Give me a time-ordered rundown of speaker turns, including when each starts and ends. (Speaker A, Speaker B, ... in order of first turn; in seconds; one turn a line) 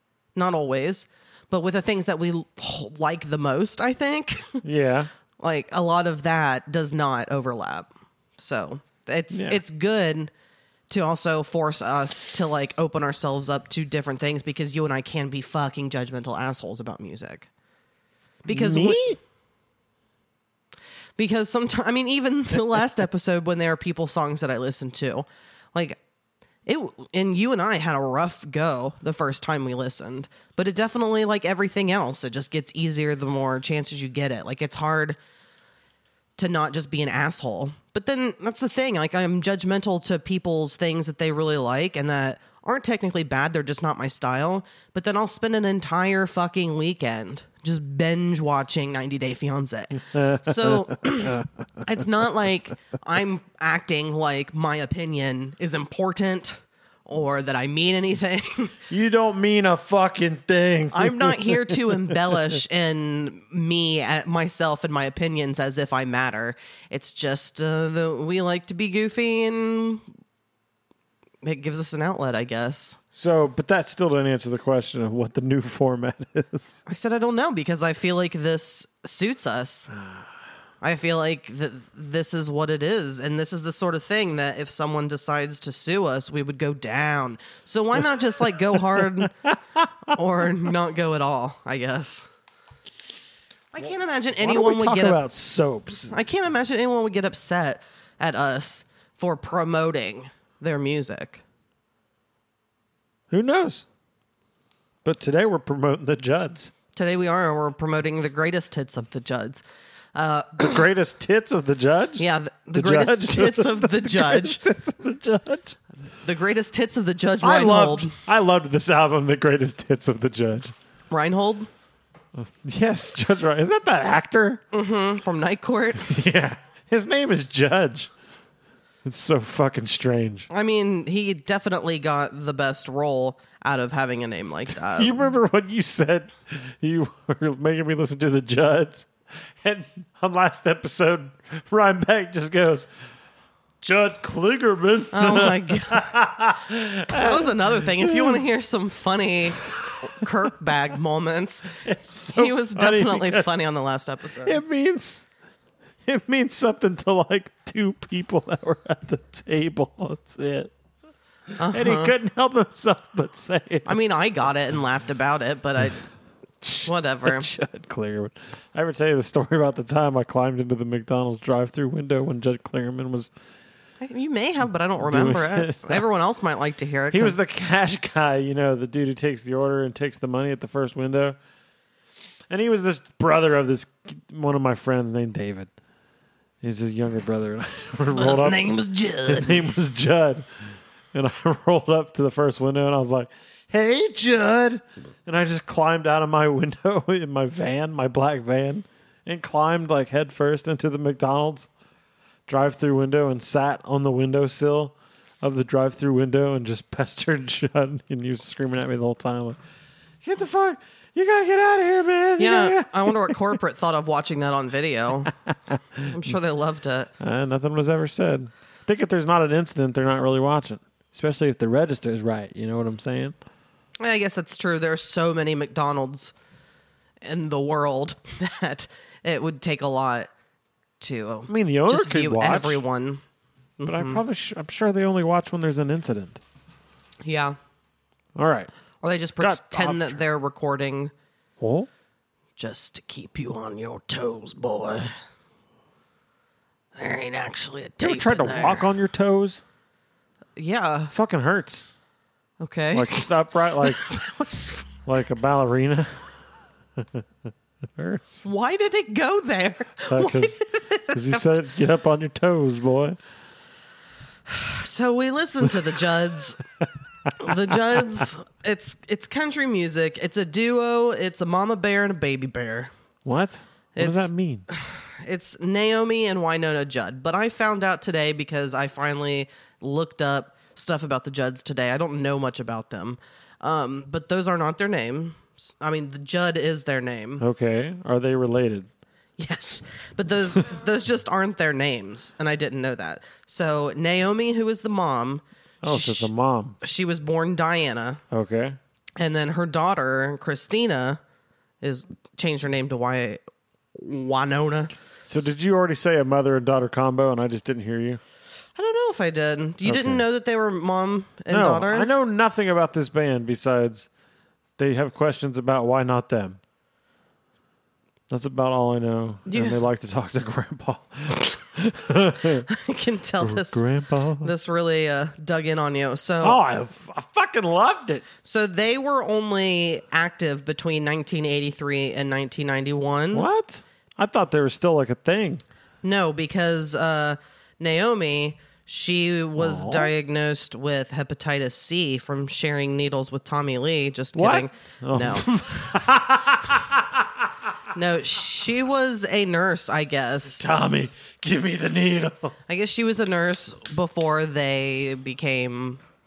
Speaker A: 0.3-4.6
Speaker B: 4.6-5.1
Speaker A: 5.4-10.3
Speaker B: 9.3-9.6
Speaker A: 10.9-17.5
Speaker A: 18.4-19.0
Speaker B: 18.5-19.2
Speaker A: 21.2-26.0
Speaker A: 26.6-35.2
Speaker A: 36.4-58.8
Speaker B: 50.1-51.4
Speaker B: 58.9-62.2
Speaker A: 60.9-70.0
Speaker A: 71.4-73.0
Speaker B: 73.1-76.8
Speaker A: 76.8-79.9
Speaker B: 80.0-80.2
Speaker A: 80.8-89.4
Speaker B: 89.0-89.8
Speaker A: 90.1-92.3
Speaker A: 93.7-95.2
Speaker B: 93.8-96.1
Speaker A: 96.1-101.4
Speaker B: 103.3-103.8
Speaker B: 105.0-106.7
Speaker A: 106.9-109.6
Speaker A: 110.1-110.8
Speaker B: 110.6-115.8
Speaker A: 112.2-114.6
Speaker A: 116.2-118.1
Speaker B: 117.4-120.7
Speaker A: 121.1-121.7
Speaker B: 122.3-124.6
Speaker A: 124.7-126.1
Speaker B: 126.0-128.1
Speaker B: 129.0-130.5
Speaker A: 130.5-135.2
Speaker B: 134.7-142.9
Speaker B: 143.8-148.4
Speaker A: 145.1-146.1
Speaker A: 147.1-154.6
Speaker B: 149.8-150.3
Speaker B: 151.8-153.7
Speaker B: 154.4-155.3
Speaker B: 156.1-160.7
Speaker A: 161.6-162.1
Speaker B: 161.7-164.0
Speaker A: 163.8-166.0
Speaker B: 166.6-173.3
Speaker A: 166.8-167.5
Speaker A: 174.0-177.3
Speaker B: 175.0-176.0
Speaker B: 177.1-181.4
Speaker B: 182.5-185.7
Speaker B: 186.6-188.7
Speaker A: 188.1-189.6
Speaker B: 189.2-190.4
Speaker B: 191.1-201.7
Speaker B: 202.5-209.6
Speaker B: 210.2-213.4
Speaker A: 212.4-215.3
Speaker B: 215.5-216.3
Speaker A: 216.1-217.1
Speaker B: 217.2-223.3
Speaker A: 224.0-226.3
Speaker A: 227.2-230.3
Speaker A: 231.0-233.2
Speaker B: 231.5-232.8
Speaker A: 233.8-234.2
Speaker B: 233.8-236.4
Speaker A: 237.2-237.6
Speaker B: 238.3-238.7
Speaker A: 239.0-241.1
Speaker B: 239.4-240.2
Speaker B: 241.6-241.9
Speaker A: 242.6-245.1
Speaker A: 246.9-248.9
Speaker B: 248.0-249.6
Speaker A: 250.6-251.1
Speaker B: 251.1-251.9
Speaker A: 252.6-253.3
Speaker B: 252.9-254.0
Speaker A: 253.8-254.9
Speaker B: 255.0-256.3
Speaker B: 257.0-257.2
Speaker B: 258.0-258.4
Speaker A: 258.4-261.4
Speaker B: 260.1-260.6
Speaker B: 261.1-263.2
Speaker A: 264.5-266.6
Speaker B: 267.3-268.2
Speaker A: 267.4-272.9
Speaker B: 273.2-274.6
Speaker A: 273.9-287.4
Speaker B: 287.4-288.9
Speaker A: 289.4-298.2
Speaker B: 295.8-296.8
Speaker B: 298.3-298.8
Speaker A: 299.2-301.2
Speaker A: 301.8-303.4
Speaker A: 303.9-304.9
Speaker B: 305.2-308.2
Speaker A: 308.8-312.1
Speaker B: 309.8-310.2
Speaker B: 311.5-314.1
Speaker B: 314.8-316.6
Speaker B: 318.3-322.6
Speaker A: 319.4-319.8
Speaker A: 322.6-323.8
Speaker B: 323.4-324.5
Speaker A: 324.4-326.6
Speaker B: 326.4-328.2
Speaker A: 328.4-333.5
Speaker B: 333.3-335.6
Speaker A: 336.0-345.6
Speaker B: 339.6-340.1
Speaker B: 344.3-347.2
Speaker A: 347.9-350.6
Speaker B: 350.5-352.5
Speaker A: 352.7-356.0